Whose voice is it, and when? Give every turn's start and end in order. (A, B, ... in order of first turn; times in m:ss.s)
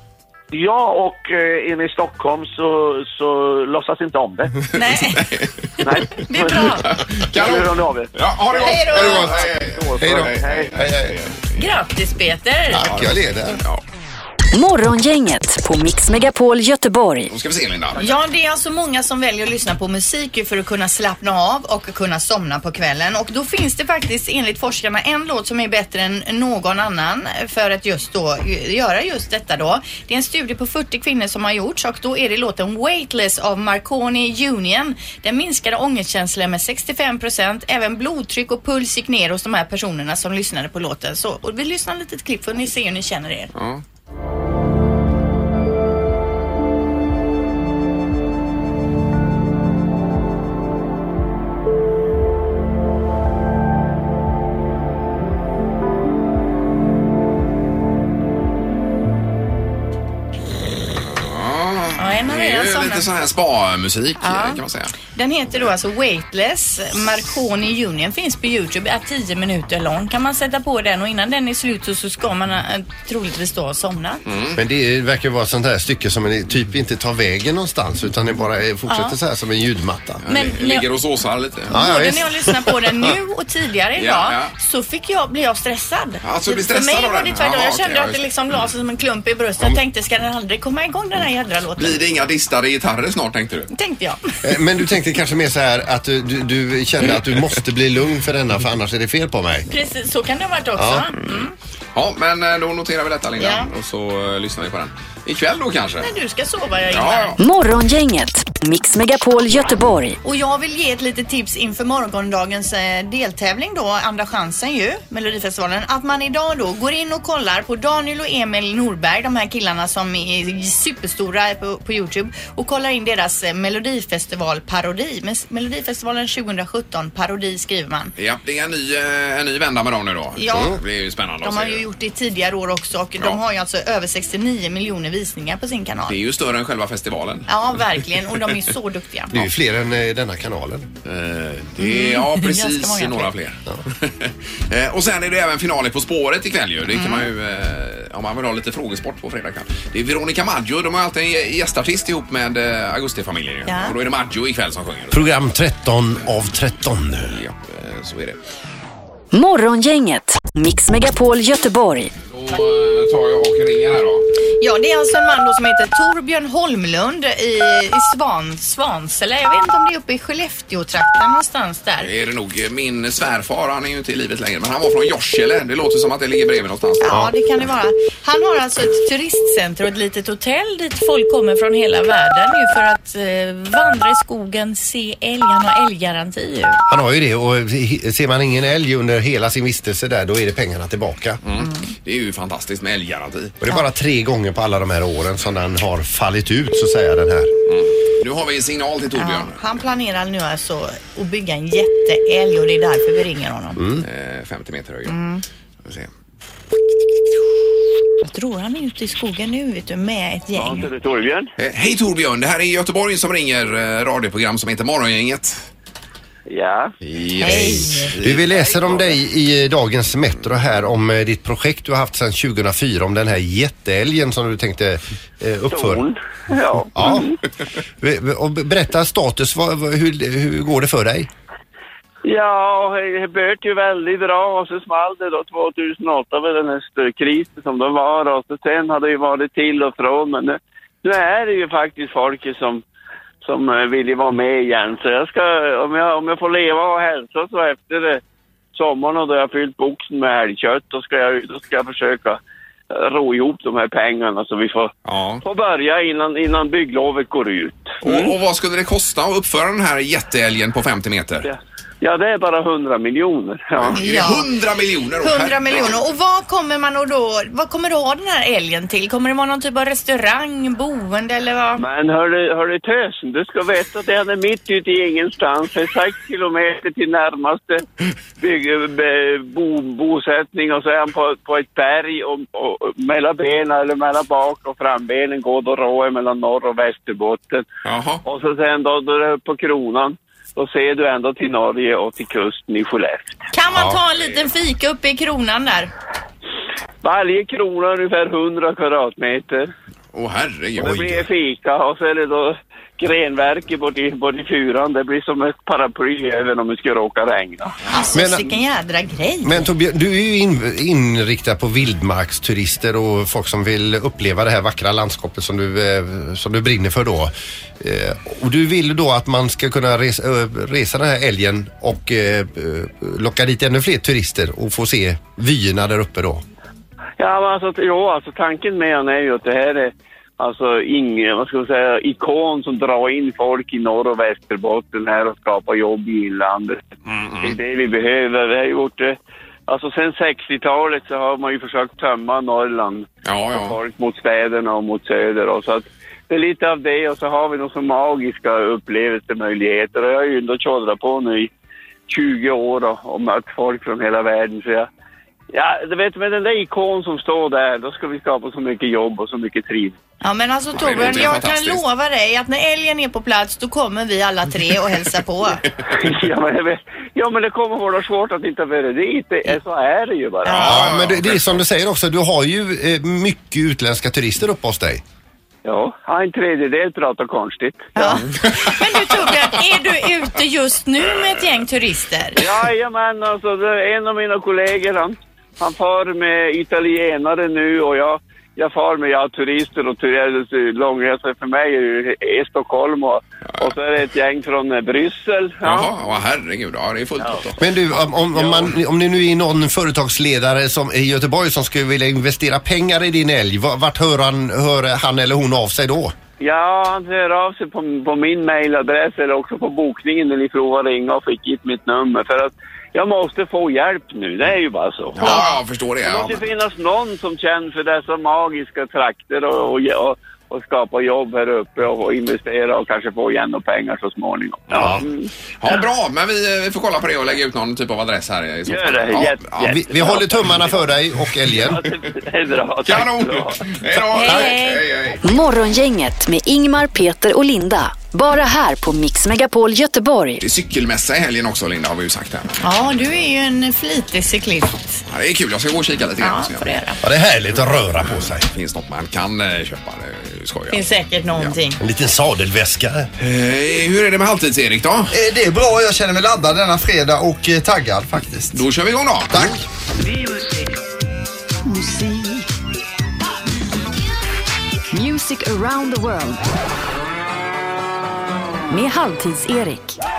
0:00.5-0:04.6 A
0:04.7-0:05.4 B
0:05.0-0:05.5 C
0:05.8-0:10.8 A
0:06.0-0:07.0 B
0:06.9-0:11.7 C
0:08.5-0:09.3 B
0:08.9-0:09.4 D
0:10.0-0:11.2 D
0:11.6-0:12.9 B
0:12.7-0:13.6 D
0:12.8-0:13.8 C
0:14.5-0:17.3 E
0:17.3-0:18.0 C
0:18.0-0:43.5 B
0:43.6-0:43.8 C
1:01.1-1:05.0 C
1:02.0-1:03.1 B
1:04.2-1:04.6 B
1:05.1-1:14.2 B
1:14.3-1:14.6 C
1:14.6-1:20.2 D
1:18.9-1:19.2 B
1:20.2-1:21.8 C
1:20.3-1:20.9 B
1:21.7-1:23.1 D
1:21.7-1:32.0 B
1:24.0-1:24.5 C
1:26.2-1:28.2 C
1:31.8-1:33.7 C
1:33.7-1:34.3 B
1:34.4-1:39.7 D
1:39.7-1:41.5 B
1:40.8-1:41.1 D
1:42.0-1:46.1 C
1:43.4-1:43.7 B
1:46.0-1:47.4 B
1:46.9-1:47.4 C
1:47.4-1:50.2 E
1:50.2-2:08.1 B
2:08.2-2:11.8 C
2:10.4-2:10.8 B
2:11.4-2:16.2 B
2:16.1-2:18.4 C
2:17.5-2:19.5 B
2:19.3-2:20.9 D
2:21.0-2:35.3 C
2:21.8-2:23.3 B
2:26.9-2:27.3 B
2:33.7-2:34.0 B
2:35.1-2:37.4 D
2:37.3-2:38.4 C
2:39.3-2:42.1 E
2:42.3-2:44.2 C
2:44.6-2:52.1 B
2:52.0-2:57.2 C
2:57.0-3:06.8 B
3:06.9-3:11.4 D
3:11.4-3:13.6 C
3:13.6-3:17.5 D
3:17.7-3:19.6 C
3:19.2-3:23.8 B
3:23.8-3:24.1 D
3:24.0-3:25.2 C
3:25.1-3:25.4 B
3:25.8-3:26.1 C
3:28.2-3:30.9 B
3:30.6-3:31.5 F
3:31.6-3:35.7 C
3:36.5-3:36.9 F
3:37.0-3:39.0 C
3:37.4-3:38.1 B
3:37.4-3:46.0 D
3:45.7-3:47.3 F
3:47.0-3:47.3 D
3:48.0-3:51.3 D
3:52.2-4:02.8 F
4:03.4-4:08.2 F
4:08.7-4:18.3 F
4:15.1-4:15.4 C
4:18.0-4:21.5 C
4:21.4-4:24.0 F
4:23.8-4:26.0 C
4:24.0-4:24.5 B
4:25.2-4:31.8 B
4:31.8-4:37.8 F
4:38.4-4:47.6 F
4:47.8-4:48.2 C
4:48.2-4:53.3 F
4:53.5-4:55.9 B
4:54.2-4:54.4 C
4:57.0-4:59.7 F
5:00.1-5:01.2 C
5:00.8-5:07.8 F
5:07.9-5:09.7 B
5:08.1-5:08.5 D
5:09.4-5:26.4 D
5:27.2-5:36.9 F
5:37.1-5:37.6 C
5:37.4-5:51.5 F
5:43.2-5:43.8 C
5:52.1-5:54.9 F
5:55.5-6:00.0 F
6:00.2-6:05.6 B
6:00.8-6:01.8 C
6:05.9-6:10.7 F
6:10.5-6:11.6 C
6:10.6-6:15.0 D
6:15.6-6:18.0 F
6:18.0-6:22.4 B
6:18.3-6:18.8 C
6:22.4-6:35.9 F
6:35.6-6:37.6 C
6:37.6-6:46.1 D
6:38.3-6:38.7 C
6:46.4-7:05.3 F
6:55.2-6:56.4 C
7:05.6-7:10.5 C
7:08.7-7:10.8 F
7:09.6-7:11.8 D
7:11.6-7:14.4 F
7:12.9-7:15.2 C
7:14.1-7:14.8 B
7:15.2-7:20.4 E
7:20.4-7:22.6 C
7:22.6-7:25.0 B
7:25.1-7:26.7 C
7:26.2-7:27.0 B
7:27.0-7:28.5 D
7:28.4-7:31.6 C
7:30.7-7:31.8 B
7:31.8-7:33.1 D
7:33.2-7:35.2 C
7:35.1-7:38.6 G
7:38.5-7:39.6 C
7:39.3-7:39.6 G
7:41.6-7:42.4 E
7:44.9-7:46.4 E
7:48.7-7:50.0 E